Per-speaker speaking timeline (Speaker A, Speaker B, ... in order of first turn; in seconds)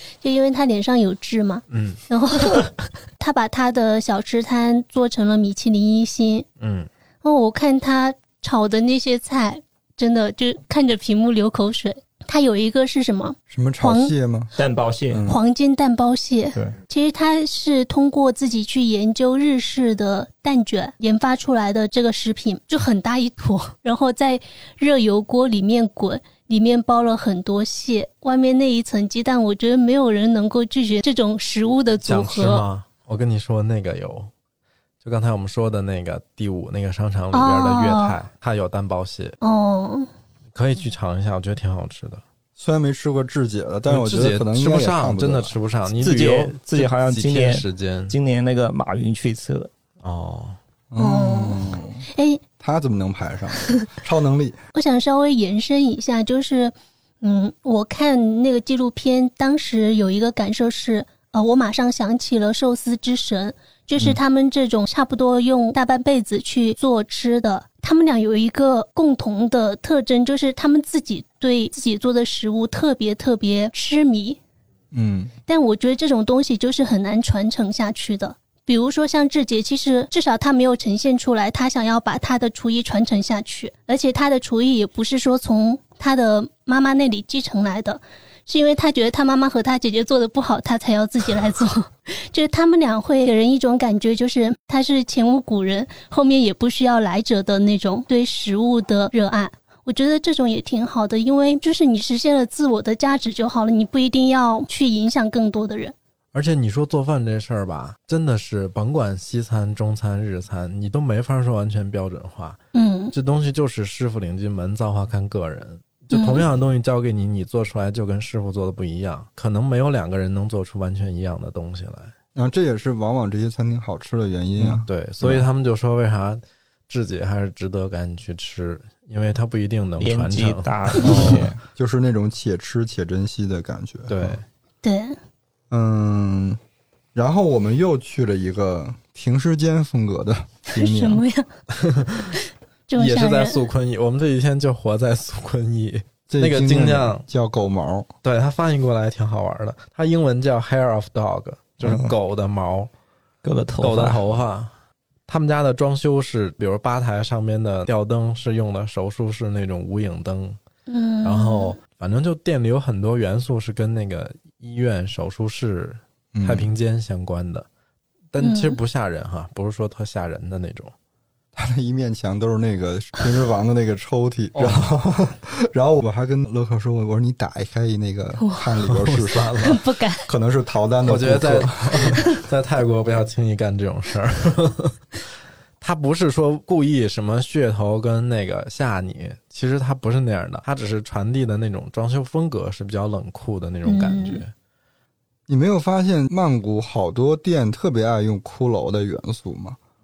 Speaker A: 0.2-6.5, 7.2-14.1, 15.3-32.6, 37.3-38.2, 39.4-40.1, 51.0-52.4, 54.7-74.4, 75.5-106.0, 112.7-113.1, 116.1-116.4, 134.8-135.2, 140.7-141.5, 142.9-143.6, 160.9-161.8, 168.4-168.8, 178.4-178.7, 179.6-180.3, 193.9-194.4
Speaker B: 1.7-2.0, 6.6-6.9, 32.0-34.3, 35.0-39.4, 40.5-42.2, 43.9-48.2, 50.0-50.6, 106.3-112.6, 113.1-122.1, 124.6-131.5, 134.1-134.4, 141.7-142.4, 143.0-147.2, 148.2-152.9, 153.8-154.7, 155.3-160.6, 161.2-167.7, 168.3-170.9, 178.8-179.8, 181.0-185.0, 185.8-194.5
Speaker C: 13.5-14.5, 15.1-15.4, 42.6-45.6, 50.9-52.0, 52.6-54.6, 74.9-75.3, 122.3-125.5, 131.0-134.4, 135.7-136.6, 137.2-141.2, 146.3-148.1, 166.3-166.7, 171.6-179.7, 180.2-182.2, 195.5-199.8
Speaker D: 14.6-15.2, 46.0-49.7, 130.0-131.5, 153.4-154.2